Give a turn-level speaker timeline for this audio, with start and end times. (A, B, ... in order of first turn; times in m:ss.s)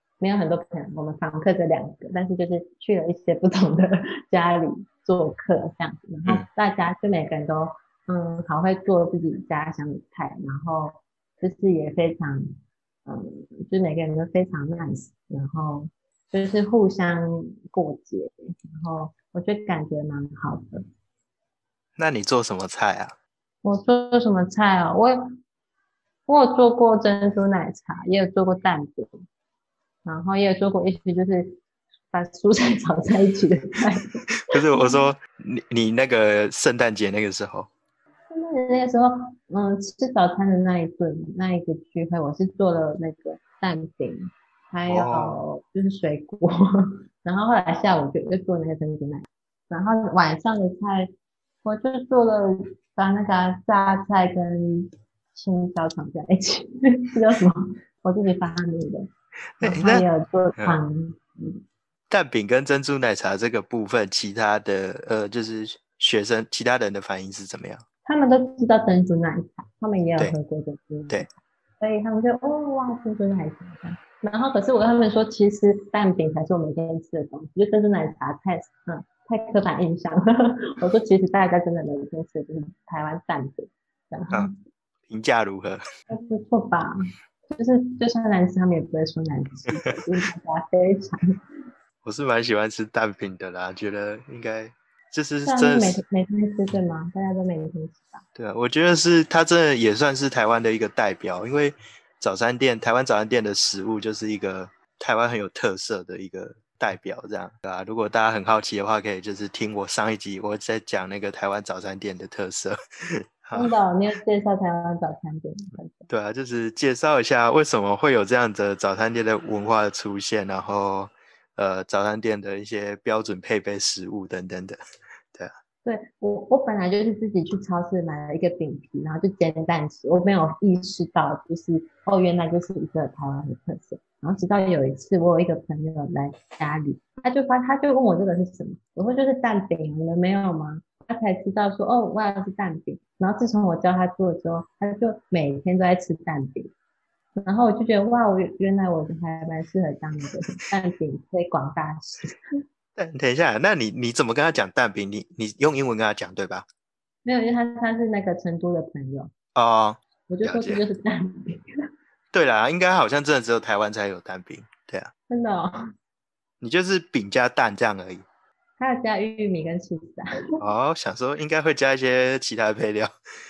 0:00.2-0:20.8 A
0:22.0-0:23.1 B
0:23.6-0:25.2 A
0:26.3-0:29.2 A
0:30.0-0:31.6 A
0:32.1-0:35.0 A
0:34.4-0:37.7 B
0:38.3-0:51.1 A
0:44.9-0:45.4 B
0:51.6-0:59.1 A
0:59.6-1:00.0 B
0:59.6-1:01.6 A
1:02.1-1:07.8 B
1:08.0-1:24.6 A
1:25.1-1:25.8 B
1:26.1-1:27.0 A
1:27.5-1:31.4 A
1:32.0-1:36.0 B
1:35.4-1:38.2 A
1:38.4-1:53.7 B
1:53.5-1:56.1 A
1:56.1-2:04.8 B
2:05.8-2:26.7 A
2:27.4-2:32.4 A
2:33.0-2:36.6 B
2:37.2-2:39.3 A
2:39.5-2:40.8 B
2:40.3-2:41.7 A
2:42.3-2:45.1 B
2:45.3-2:45.8 A
2:46.6-2:48.2 B
2:48.8-2:50.3 A
2:50.6-2:53.1 B